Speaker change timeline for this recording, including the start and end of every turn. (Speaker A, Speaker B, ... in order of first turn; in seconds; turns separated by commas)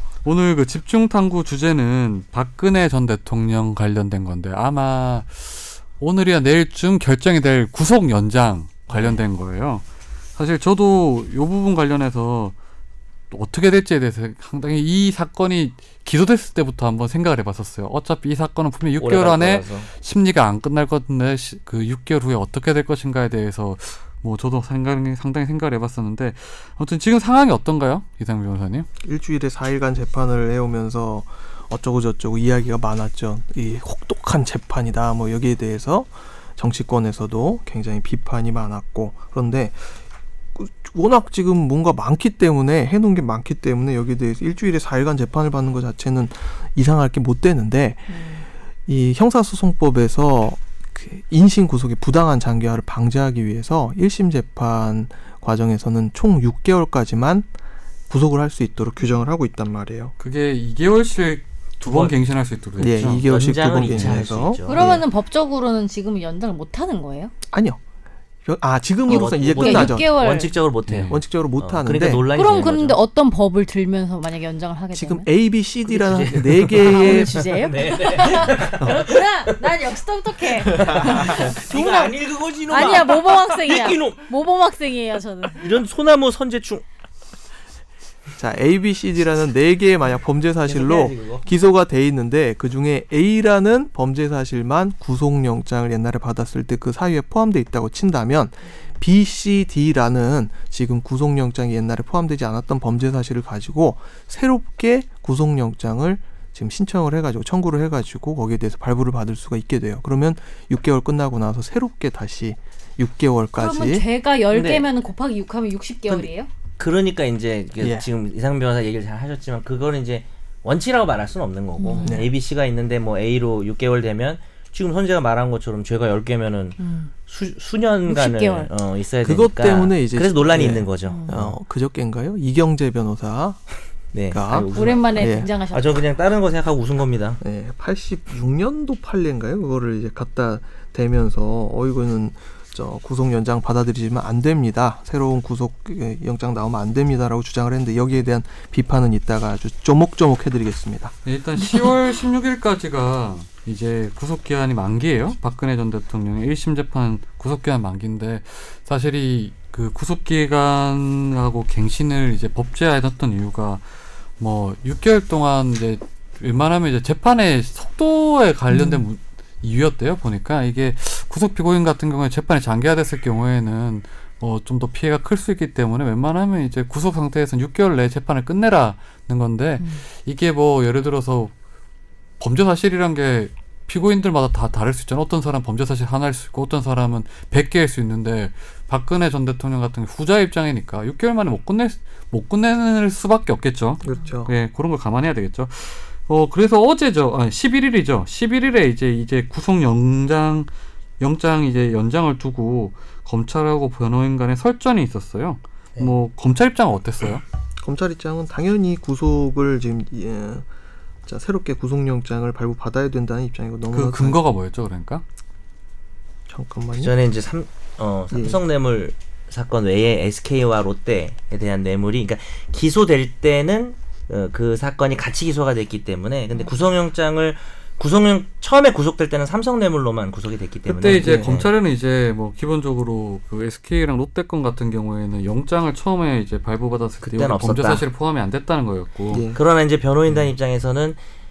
Speaker A: 0.2-9.8, Speaker B: 8.9-9.2, Speaker A: 10.4-12.6, Speaker A: 13.3-28.9, Speaker B: 19.0-19.9, Speaker C: 29.0-40.0, Speaker C: 40.5-48.3, Speaker D: 48.1-48.5, Speaker C: 48.9-57.5, Speaker C: 58.1-60.1, Speaker A: 60.2-64.2, Speaker B: 61.8-62.1, Speaker C: 62.8-65.0, Speaker B: 63.2-65.0, Speaker D: 64.7-67.3, Speaker C: 67.5-67.8, Speaker C: 68.5-70.1, Speaker B: 69.1-73.0, Speaker D: 69.1-70.5, Speaker A: 70.9-71.2, Speaker C: 71.1-72.3, Speaker D: 72.3-75.3, Speaker C: 74.9-77.5, Speaker B: 75.9-79.6, Speaker D: 76.8-82.2, Speaker B: 80.6-84.3, Speaker D: 82.7-85.7, Speaker B: 85.6-86.8, Speaker C: 88.4-114.0, Speaker B: 90.6-91.5, Speaker D: 113.6-116.5, Speaker B: 114.5-114.9, Speaker B: 116.1-131.6, Speaker C: 117.8-118.1, Speaker D: 121.8-122.2, Speaker C: 122.0-122.3, Speaker D: 126.8-127.1, Speaker D: 128.1-128.7, Speaker C: 129.2-133.6, Speaker D: 131.1-131.4, Speaker B: 134.1-137.4, Speaker C: 134.3-135.5, Speaker D: 134.5-136.0, Speaker C: 137.4-151.1, Speaker A: 151.2-163.8, Speaker D: 151.6-151.9, Speaker A: 164.4-181.5, Speaker D: 168.7-169.0, Speaker A: 182.4-200.7, Speaker C: 194.0-194.5, Speaker A: 201.2-207.4, Speaker C: 207.8-210.7, Speaker C: 211.3-214.4, Speaker A: 213.9-215.2, Speaker C: 216.5-217.1, Speaker B: 217.0-231.7, Speaker C: 218.3-218.6, Speaker A: 230.9-239.4, Speaker C: 231.2-231.5, Speaker B: 237.2-238.0, Speaker C: 239.3-239.6, Speaker B: 239.5-241.2